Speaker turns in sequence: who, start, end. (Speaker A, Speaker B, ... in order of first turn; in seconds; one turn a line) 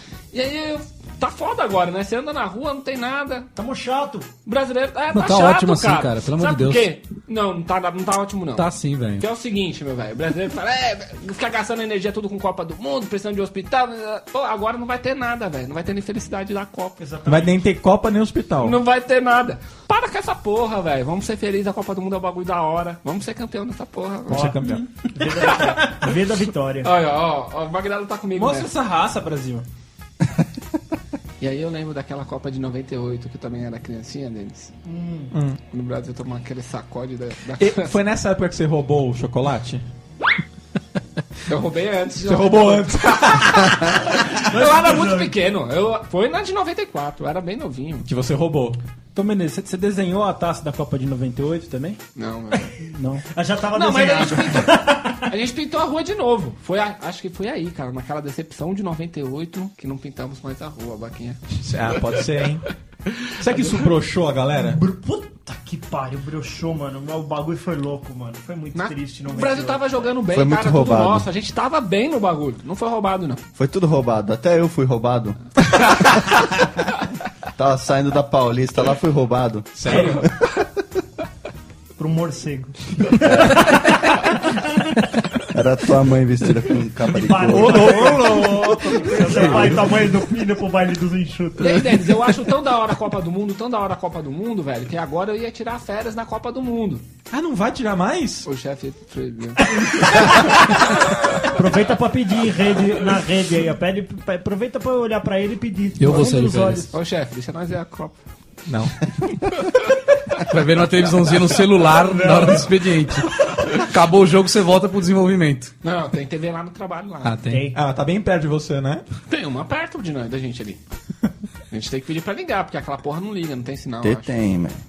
Speaker A: 0.3-3.5
Speaker B: 3.6-4.3
Speaker A: 4.5-17.0
Speaker C: 5.1-6.9
Speaker C: 8.6-9.3
Speaker B: 17.0-17.6
Speaker D: 17.3-18.8
Speaker A: 18.6-24.5
Speaker D: 24.3-24.9
Speaker B: 24.3-26.9
Speaker A: 26.8-28.7
Speaker E: 28.3-29.7
Speaker A: 31.4-34.8
Speaker B: 34.9-35.3
Speaker D: 35.3-35.6
Speaker A: 35.7-38.0
Speaker D: 37.6-39.8
Speaker A: 41.5-48.1
Speaker D: 42.2-44.0
Speaker B: 44.5-45.3
Speaker D: 48.0-48.8
Speaker E: 49.1-52.0
Speaker A: 52.2-52.8
Speaker E: 52.9-53.2
Speaker B: 53.3-55.3
Speaker A: 53.7-61.4
Speaker D: 61.6-62.7
Speaker D: 63.4-64.8
Speaker B: 64.6-70.0
Speaker A: 68.8-73.4
Speaker F: 70.3-71.3
Speaker F: 73.6-75.4
Speaker F: 77.6-80.2
Speaker D: 79.8-80.3
Speaker B: 79.9-80.2
Speaker B: 82.0-84.3
Speaker F: 85.5-88.1
Speaker B: 87.2-92.1
Speaker D: 87.5-90.1
Speaker E: 87.8-89.5
Speaker A: 91.6-97.0
Speaker D: 97.3-98.5
Speaker A: 98.5-100.5
Speaker B: 99.7-100.5
Speaker B: 101.5-106.9
Speaker C: 106.0-106.9
Speaker A: 106.9-108.2
Speaker D: 108.7-109.0
Speaker C: 110.4-115.7
Speaker B: 112.0-112.7
Speaker A: 115.8-117.4
Speaker C: 117.2-117.7
Speaker B: 117.5-117.8
Speaker D: 117.7-119.0
Speaker A: 119.3-120.8
Speaker A: 121.7-124.3
Speaker F: 124.0-124.8